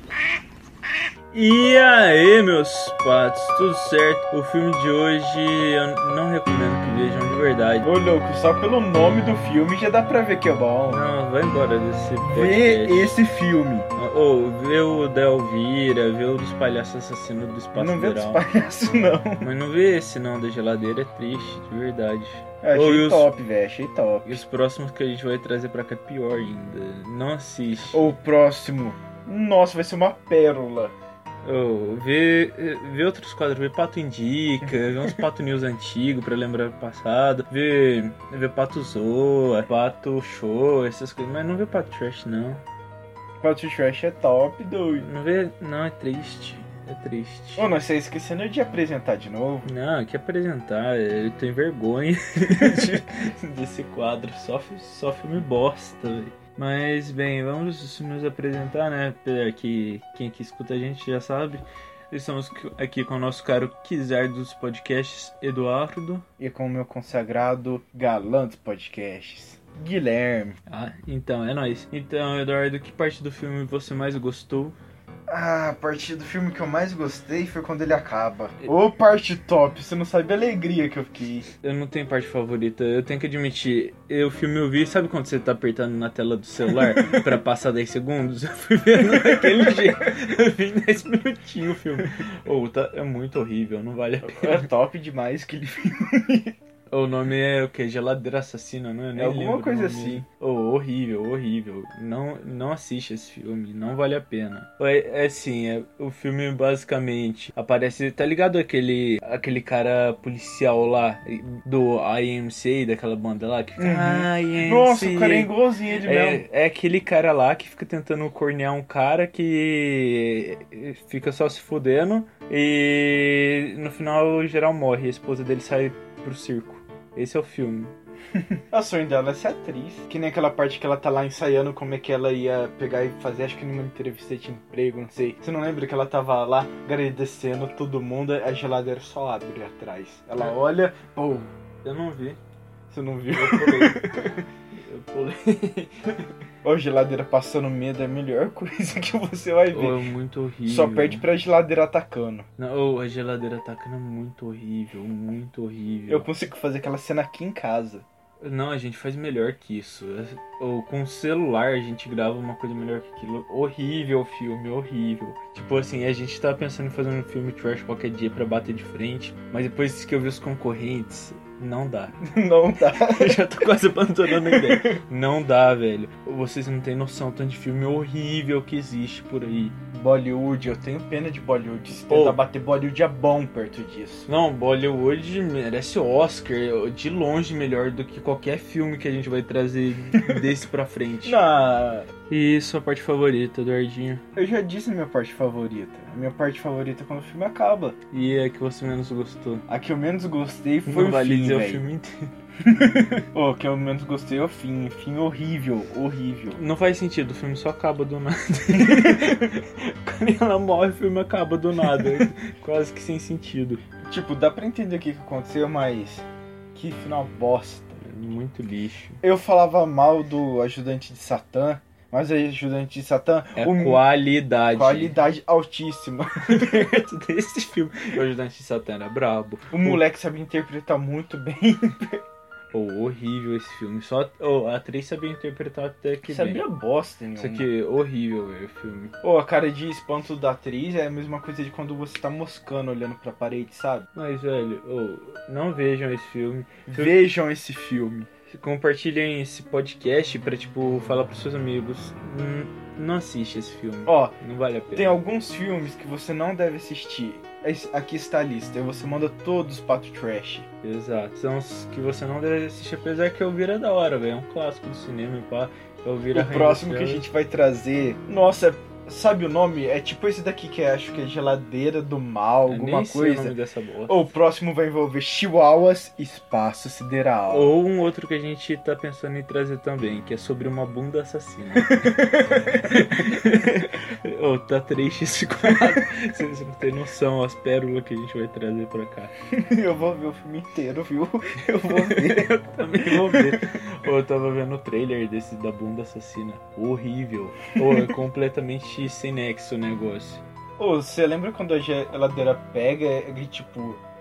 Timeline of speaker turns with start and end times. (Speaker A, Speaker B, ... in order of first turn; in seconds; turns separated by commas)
Speaker A: 1.3-7.9, Speaker B: 7.8-11.0, Speaker A: 10.9-13.2, Speaker B: 12.2-13.9, Speaker A: 13.9-18.4, Speaker B: 17.7-19.5, Speaker A: 19.4-23.3, Speaker B: 22.6-24.4, Speaker A: 24.3-28.1, Speaker B: 27.9-30.9, Speaker A: 31.4-42.6, Speaker B: 34.7-35.2, Speaker B: 43.4-45.1, Speaker A: 45.0-47.7, Speaker B: 47.6-49.7, Speaker A: 49.6-66.3, Speaker B: 52.5-53.0, Speaker B: 66.4-70.6, Speaker A: 70.7-74.8, Speaker B: 75.3-81.5, Speaker A: 81.6-94.7, Speaker B: 86.9-87.2, Speaker B: 89.1-89.9, Speaker B: 94.2-96.5, Speaker A: 96.9-128.0, Speaker B: 99.2-100.2, Speaker B: 113.8-116.5, Speaker B: 128.7-141.5, Speaker A: 140.4-140.7, Speaker A: 141.8-142.4, Speaker B: 142.9-144.4, Speaker A: 143.3-144.0, Speaker A: 144.7-146.2, Speaker B: 146.6-150.1, Speaker A: 149.7-151.3, Speaker B: 150.7-152.5, Speaker A: 152.6-156.3, Speaker B: 156.1-158.1, Speaker A: 158.4-172.2, Speaker B: 172.2-173.4, Speaker A: 172.9-179.8, Speaker B: 174.3-175.0, Speaker B: 179.9-184.3, Speaker A: 182.1-182.4, Speaker A: 184.3-191.4, Speaker B: 190.1-190.4, Speaker B: 191.2-192.1, Speaker A: 192.3-194.2, Speaker B: 194.4-198.0, Speaker A: 198.1-199.7, Speaker B: 199.7-201.9, Speaker A: 200.9-202.3, Speaker B: 202.6-206.6, Speaker A: 206.5-213.8, Speaker B: 208.8-209.3, Speaker B: 211.9-212.2, Speaker B: 214.0-218.1, Speaker A: 218.0-219.2, Speaker B: 219.2-224.1, Speaker A: 223.6-225.2, Speaker B: 224.7-227.0, Speaker A: 226.5-230.0, Speaker B: 229.7-232.2, Speaker A: 232.7-236.6, Speaker B: 236.3-237.7, Speaker A: 237.4-239.2, Speaker B: 239.2-244.1, Speaker A: 244.2-247.2, Speaker B: 246.9-248.3, Speaker A: 248.5-255.2, Speaker B: 254.1-254.3, Speaker B: 254.9-260.7, Speaker A: 260.8-267.3, Speaker B: 266.3-277.7, Speaker A: 272.7-274.3, Speaker A: 277.5-289.3, Speaker B: 281.9-283.4, Speaker B: 289.5-293.6, Speaker A: 291.8-300.4, Speaker B: 297.8-298.1, Speaker B: 300.8-304.0